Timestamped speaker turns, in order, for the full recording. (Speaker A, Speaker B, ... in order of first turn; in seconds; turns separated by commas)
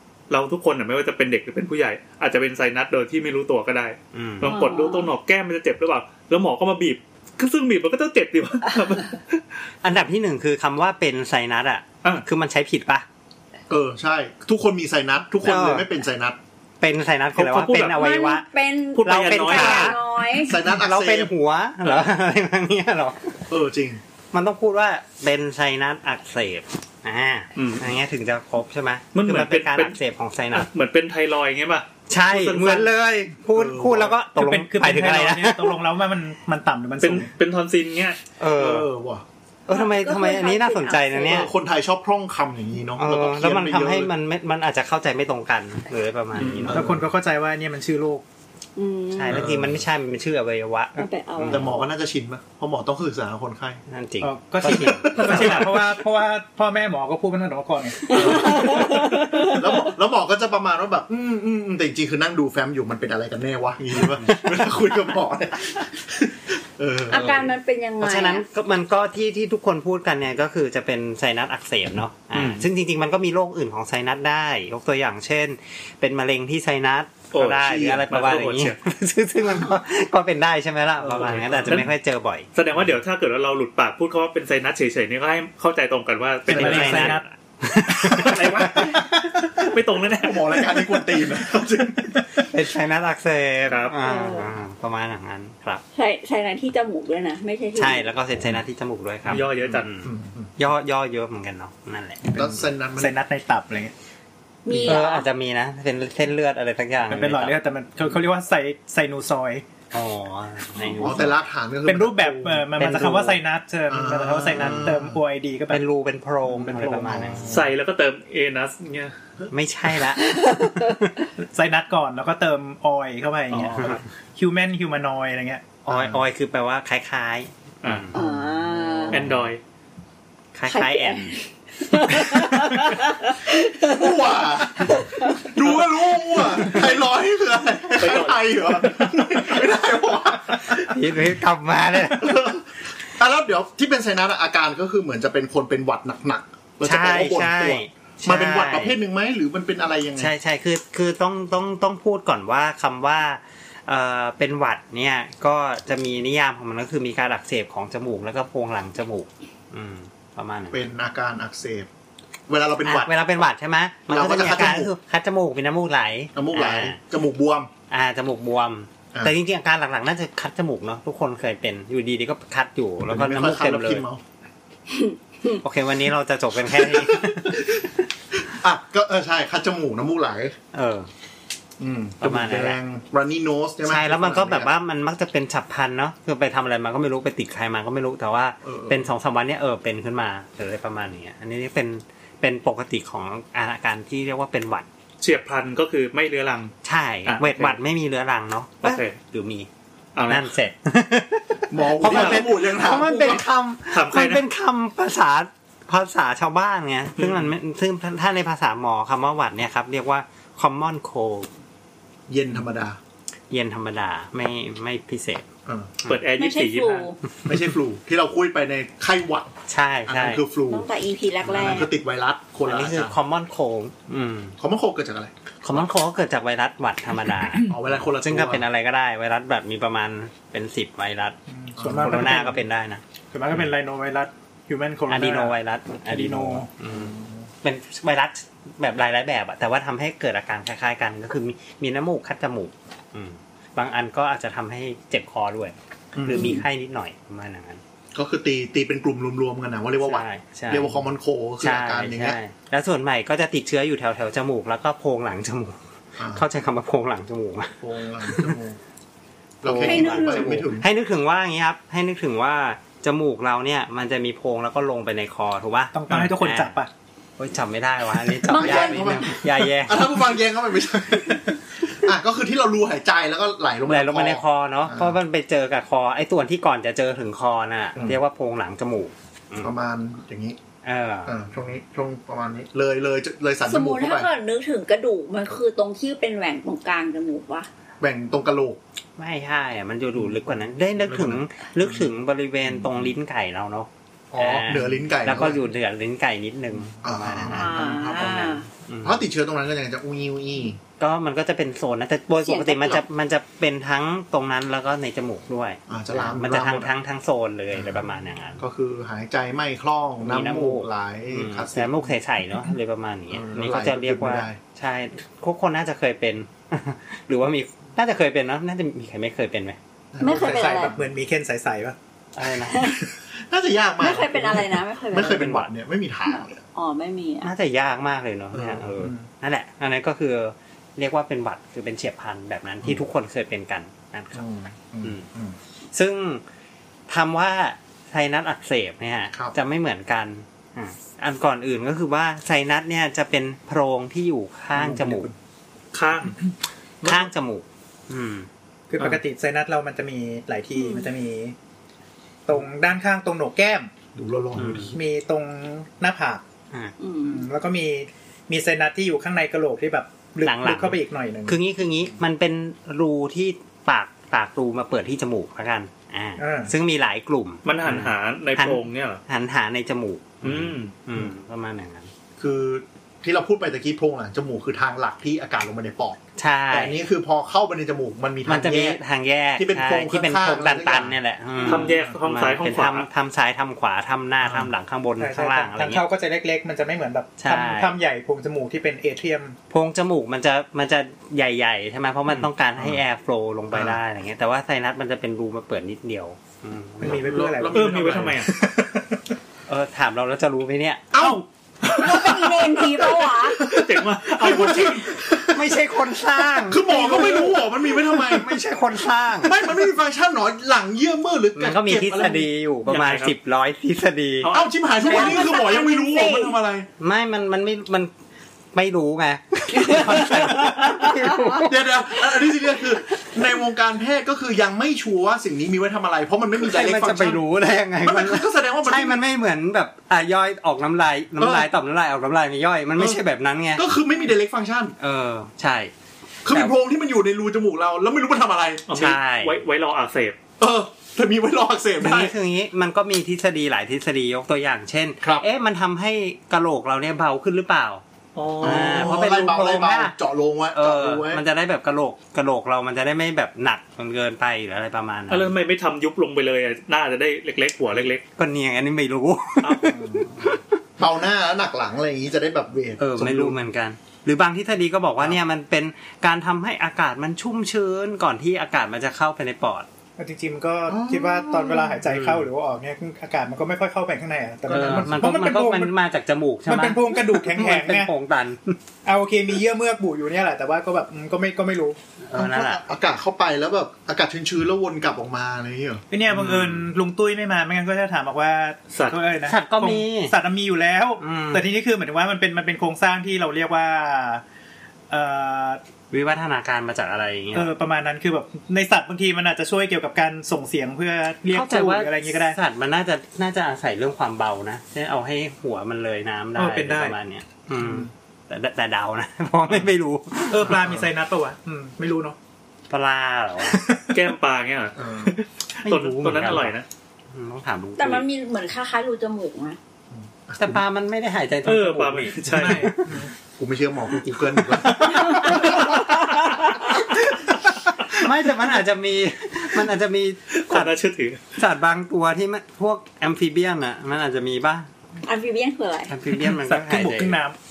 Speaker A: 0.3-9.4, Speaker B: 4.1-4.6, Speaker C: 4.4-5.1, Speaker B: 9.8-13.1, Speaker D: 13.7-16.4, Speaker B: 15.4-15.9, Speaker B: 16.8-18.5, Speaker A: 17.4-18.0, Speaker C: 17.9-20.6, Speaker A: 18.9-20.0, Speaker B: 19.0-20.0, Speaker D: 20.3-21.3, Speaker B: 20.6-23.4, Speaker D: 23.5-24.0, Speaker B: 24.3-30.7, Speaker A: 27.6-27.9, Speaker A: 29.1-30.0, Speaker A: 30.5-32.9, Speaker B: 32.1-35.8, Speaker D: 33.5-34.2, Speaker E: 34.3-37.3, Speaker A: 37.0-38.2, Speaker B: 38.4-38.9, Speaker D: 38.5-39.2, Speaker B: 39.7-41.5, Speaker C: 39.7-41.5, Speaker D: 41.3-44.1, Speaker B: 43.0-46.9, Speaker D: 46.4-47.1, Speaker E: 46.7-48.2, Speaker C: 48.8-49.5, Speaker B: 49.1-51.8, Speaker D: 49.3-49.8, Speaker C: 51.0-51.7, Speaker D: 51.5-53.8, Speaker B: 53.9-55.9, Speaker E: 54.2-58.6, Speaker D: 54.6-55.7, Speaker A: 55.3-55.6, Speaker C: 58.1-59.9, Speaker D: 58.1-67.5, Speaker B: 64.0-64.6, Speaker C: 67.1-68.5, Speaker B: 67.1-67.4, Speaker B: 68.0-82.5, Speaker A: 72.3-72.7, Speaker A: 77.3-78.8, Speaker A: 81.0-81.9, Speaker D: 81.1-81.8, Speaker A: 82.6-87.2, Speaker B: 86.5-88.6, Speaker E: 86.5-87.2, Speaker D: 86.5-87.0, Speaker D: 88.0-92.3, Speaker E: 88.8-89.7, Speaker A: 89.7-90.7, Speaker E: 92.0-92.2, Speaker B: 92.5-95.8, Speaker A: 93.7-94.0, Speaker C: 93.9-94.5, Speaker C: 95.9-98.1, Speaker B: 97.8-102.4, Speaker A: 99.3-99.9, Speaker D: 99.3-100.5, Speaker D: 102.3-103.2, Speaker E: 103.0-103.9, Speaker C: 104.7-105.3, Speaker B: 104.8-107.6, Speaker E: 107.0-109.7, Speaker B: 109.9-111.3, Speaker D: 111.0-112.7, Speaker E: 111.9-115.8, Speaker B: 112.7-113.4, Speaker D: 113.9-115.2, Speaker B: 114.5-114.9, Speaker B: 115.7-117.5, Speaker D: 116.5-117.7, Speaker E: 116.7-117.1, Speaker A: 117.5-119.1, Speaker B: 119.5-121.0, Speaker C: 120.2-121.1, Speaker E: 121.4-125.7, Speaker A: 123.5-124.0, Speaker B: 125.9-128.2, Speaker D: 125.9-126.2, Speaker C: 128.1-129.3, Speaker D: 128.1-129.4, Speaker A: 129.1-129.6, Speaker B: 130.6-131.4, Speaker C: 130.7-134.2, Speaker D: 133.8-141.2, Speaker C: 134.9-135.6, Speaker A: 137.9-139.4, Speaker B: 140.7-142.4, Speaker D: 141.9-150.3, Speaker B: 146.8-149.0, Speaker B: 150.2-160.9, Speaker D: 160.7-161.9, Speaker D: 162.5-163.2, Speaker B: 162.8-167.0, Speaker D: 164.1-164.9, Speaker D: 166.3-167.7, Speaker B: 167.9-174.1, Speaker D: 173.1-174.2, Speaker C: 174.9-175.5, Speaker B: 175.6-177.7, Speaker D: 176.6-180.6, Speaker B: 180.7-181.1, Speaker D: 181.8-184.7, Speaker B: 182.2-182.8, Speaker B: 183.8-194.9, Speaker D: 188.6-189.1, Speaker A: 195.2-196.7, Speaker B: 196.8-199.7, Speaker A: 197.3-197.8, Speaker A: 198.8-199.2, Speaker A: 200.2-200.5, Speaker B: 200.3-211.5, Speaker D: 201.7-203.5, Speaker A: 202.0-202.5, Speaker A: 203.9-204.4, Speaker A: 207.2-207.5, Speaker D: 212.3-213.0, Speaker B: 213.5-215.5, Speaker D: 215.7-215.9, Speaker B: 216.0-216.3, Speaker A: 216.1-217.1, Speaker C: 216.4-217.2, Speaker D: 217.4-219.5, Speaker B: 219.7-220.4, Speaker D: 220.1-220.9, Speaker C: 220.7-221.9, Speaker D: 221.5-223.2, Speaker B: 222.7-224.6, Speaker D: 224.6-225.3, Speaker B: 225.6-231.4, Speaker D: 227.6-228.7, Speaker E: 231.5-232.6, Speaker D: 231.8-232.5, Speaker B: 231.9-233.0, Speaker E: 233.3-236.7, Speaker B: 235.1-247.8, Speaker D: 236.9-237.5, Speaker D: 246.2-246.7, Speaker D: 248.2-252.4, Speaker B: 250.0-251.0, Speaker B: 251.6-255.8, Speaker D: 256.2-256.4, Speaker B: 256.3-258.6, Speaker D: 257.8-258.8, Speaker D: 259.6-260.9, Speaker B: 259.6-266.8, Speaker C: 259.8-260.6, Speaker E: 265.9-266.9, Speaker B: 267.4-270.2, Speaker C: 268.5-269.3, Speaker D: 268.5-275.1, Speaker B: 273.9-279.7, Speaker D: 279.6-280.6, Speaker B: 280.8-281.4, Speaker D: 281.3-284.3, Speaker C: 283.7-287.7, Speaker D: 288.0-288.8, Speaker B: 289.2-297.8, Speaker D: 291.0-292.1, Speaker D: 292.6-293.1, Speaker D: 294.3-295.7, Speaker D: 297.0-300.8, Speaker C: 297.5-298.7, Speaker B: 298.9-299.3, Speaker B: 301.0-308.6, Speaker C: 302.4-303.0, Speaker D: 305.9-306.9, Speaker D: 307.7-312.7, Speaker B: 310.2-319.8, Speaker D: 313.3-314.6, Speaker D: 320.1-321.0, Speaker C: 320.2-321.0, Speaker E: 320.2-322.0, Speaker B: 322.4-323.0, Speaker C: 322.7-323.1, Speaker D: 323.3-326.6, Speaker C: 324.0-325.5, Speaker B: 325.1-325.7, Speaker C: 326.3-327.5, Speaker B: 327.4-334.4, Speaker D: 328.5-329.1, Speaker E: 329.0-329.3, Speaker D: 334.3-335.6, Speaker B: 335.9-336.4, Speaker B: 337.1-345.3, Speaker E: 344.8-345.1, Speaker D: 344.9-345.3, Speaker A: 345.9-346.5, Speaker A: 347.0-347.3, Speaker B: 347.0-348.5, Speaker E: 348.9-351.6, Speaker C: 350.8-351.1, Speaker E: 352.5-353.9, Speaker D: 354.1-355.0, Speaker B: 354.6-355.0, Speaker E: 354.9-356.4, Speaker C: 357.0-357.5, Speaker E: 357.2-361.6, Speaker B: 360.4-372.1, Speaker E: 366.4-366.7, Speaker A: 367.6-369.2, Speaker A: 370.4-370.9, Speaker D: 372.4-376.2, Speaker B: 376.4-377.0, Speaker D: 376.7-379.0, Speaker B: 378.5-386.1, Speaker D: 379.6-381.1, Speaker A: 381.6-383.1, Speaker D: 381.7-382.0, Speaker D: 384.4-384.7, Speaker E: 385.2-389.6, Speaker B: 387.4-387.9, Speaker B: 389.7-397.3, Speaker D: 393.7-394.0, Speaker E: 397.0-399.0, Speaker D: 397.0-398.5, Speaker A: 397.6-398.5, Speaker B: 399.7-401.4, Speaker D: 401.1-405.8, Speaker C: 401.9-403.7, Speaker A: 403.6-405.2, Speaker B: 405.5-409.5, Speaker D: 406.5-408.6, Speaker D: 409.4-412.5, Speaker B: 411.6-414.5, Speaker A: 412.9-413.3, Speaker A: 414.4-415.4, Speaker D: 414.5-416.9, Speaker C: 415.0-416.6, Speaker B: 417.0-418.1, Speaker B: 418.7-422.1, Speaker C: 419.8-421.4, Speaker D: 419.8-420.9, Speaker D: 421.5-427.4, Speaker B: 426.6-433.9, Speaker D: 428.0-429.2, Speaker D: 431.4-431.7, Speaker D: 433.8-434.9, Speaker B: 435.0-435.9, Speaker D: 436.4-438.9, Speaker A: 438.9-440.4, Speaker B: 438.9-439.6, Speaker D: 440.6-442.3, Speaker B: 442.0-448.0, Speaker A: 448.4-449.2, Speaker B: 448.6-450.1, Speaker D: 448.6-451.4, Speaker B: 450.7-455.5, Speaker A: 455.3-458.2, Speaker B: 458.4-460.6, Speaker A: 459.6-460.0, Speaker D: 459.8-463.6, Speaker B: 463.0-469.9, Speaker E: 470.2-475.9, Speaker D: 470.9-471.9, Speaker B: 472.1-472.5, Speaker B: 474.7-478.8, Speaker E: 476.7-478.1, Speaker E: 479.1-482.0, Speaker B: 482.2-482.8, Speaker D: 482.3-486.0, Speaker E: 486.1-494.4, Speaker B: 486.3-486.9, Speaker A: 488.9-489.2, Speaker B: 489.4-490.4, Speaker B: 491.2-491.6, Speaker E: 495.1-495.8, Speaker B: 496.1-497.7, Speaker E: 497.5-502.6, Speaker B: 501.5-510.8, Speaker E: 506.6-507.2, Speaker E: 510.5-512.4, Speaker D: 510.6-511.1, Speaker B: 512.9-513.8, Speaker E: 513.6-514.2, Speaker A: 514.1-516.9, Speaker D: 515.0-515.4, Speaker B: 515.8-516.8, Speaker B: 517.3-518.3, Speaker C: 518.0-519.8, Speaker D: 520.1-520.8, Speaker B: 520.6-523.1, Speaker A: 521.6-522.9, Speaker E: 522.5-523.3, Speaker D: 523.1-526.0, Speaker B: 524.9-525.8, Speaker B: 528.1-530.9, Speaker A: 530.5-531.4, Speaker B: 531.5-534.9, Speaker C: 535.2-536.2, Speaker B: 536.1-537.4, Speaker E: 536.3-537.6